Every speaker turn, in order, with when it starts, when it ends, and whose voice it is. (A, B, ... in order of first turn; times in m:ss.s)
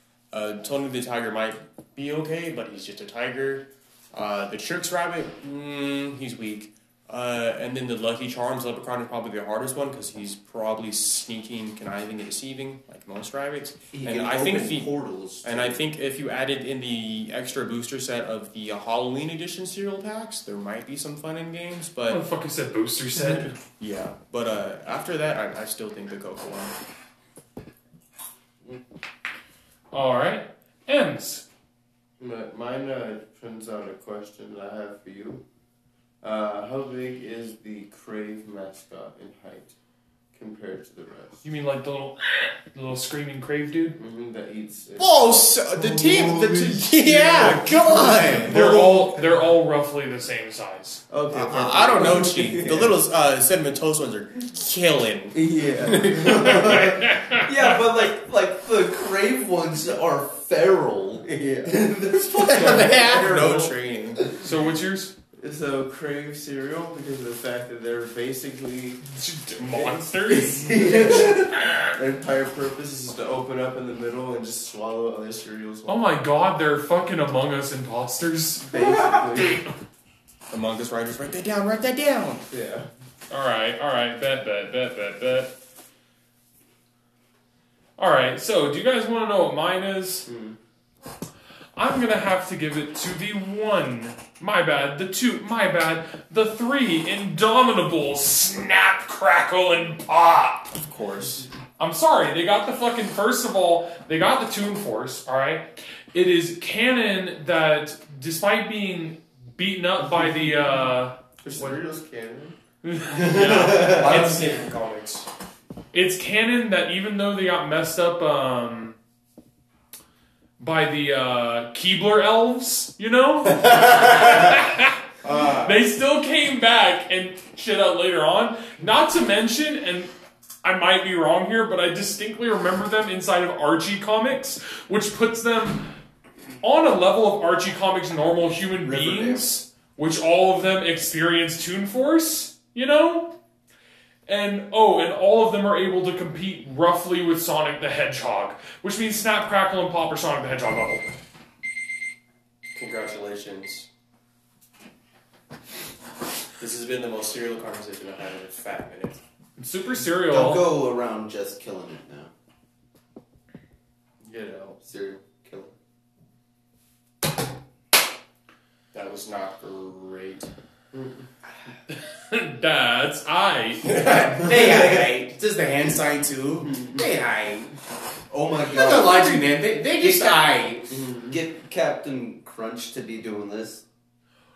0:00.3-0:14.9 A
0:13.9-0:15.8 B
0:15.4-0:22.2 A
0:22.1-0:23.6 C
0:23.2-0:26.8 A
0:29.9-0:31.4 C
0:32.2-0:35.4 D
0:36.2-0:39.7 D
0:40.3-0:41.4 D
0:41.4-0:44.0 C
0:44.0-0:49.2 D
0:45.0-0:48.8 A
0:48.4-0:51.0 C
0:51.1-0:53.0 D
0:51.3-0:56.8 A
0:55.3-0:56.9 D
0:55.9-1:03.7 B
0:56.2-0:57.8 C
1:01.3-1:01.8 D
1:02.4-1:04.4 A
1:02.6-1:03.7 D
1:04.3-1:05.2 C
1:05.4-1:09.0 D
1:09.1-1:11.4 C
1:09.6-1:16.1 D
1:10.6-1:11.5 B
1:15.9-1:18.9 C
1:18.7-1:19.6 D
1:18.7-1:19.6 B
1:20.5-1:22.5 A
1:22.5-1:22.9 D
1:23.3-1:25.6 C
1:28.0-1:30.3 C
1:30.2-1:30.6 D
1:31.8-1:40.8 C
1:40.8-1:41.5 A
1:41.8-1:51.7 C
1:51.4-1:52.6 D
1:52.8-1:54.5 C
1:53.7-1:55.3 A
1:55.9-1:59.0 C
2:00.6-2:10.1 C
2:05.2-2:05.8 A
2:10.6-2:15.9 C
2:16.6-2:23.4 C
2:18.8-2:19.5 B
2:24.3-2:31.1 C
2:32.7-2:33.9 A
2:36.6-2:39.2 A
2:39.6-2:40.7 C
2:40.3-2:42.3 B
2:44.2-2:44.8 D
2:44.8-2:45.8 B
2:48.9-2:50.5 A
2:50.9-2:51.3 D
2:51.9-2:54.1 C
2:53.8-2:57.8 A
2:58.3-3:00.6 B
2:58.5-3:01.0 A
3:00.9-3:01.4 D
3:01.3-3:03.8 B